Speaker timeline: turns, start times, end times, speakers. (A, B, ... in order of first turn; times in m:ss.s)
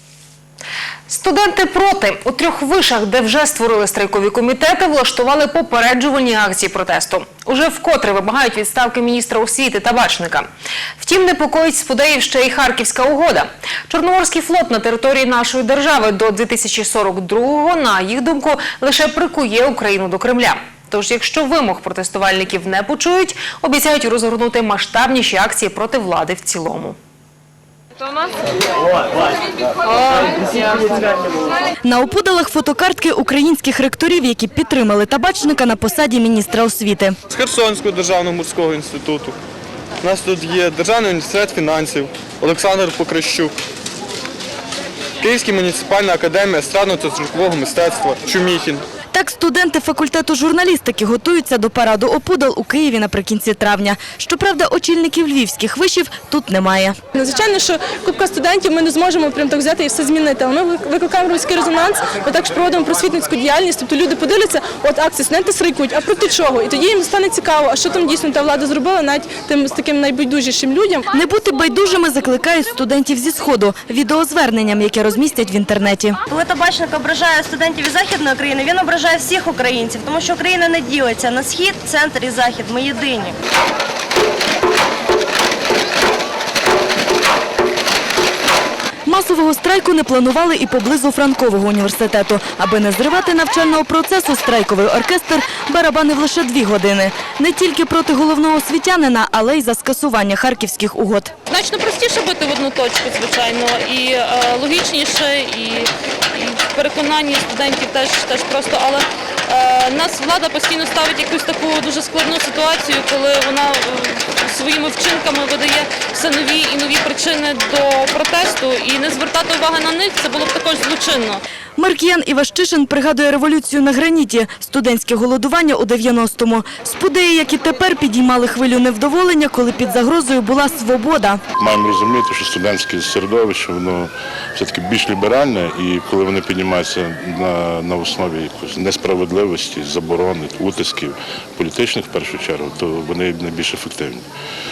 0:01.1-0:10.5 A
0:11.0-0:27.0 A
0:31.8-0:37.2 B
0:37.3-0:39.3 C
0:40.0-0:43.5 C
0:45.2-0:48.8 C
0:49.1-0:57.0 B
0:57.1-1:11.0 D
1:11.1-1:16.2 B
1:16.3-1:23.3 E
1:29.1-1:41.3 B
1:41.5-2:01.4 F
2:01.8-2:11.4 B
2:11.6-2:24.2 G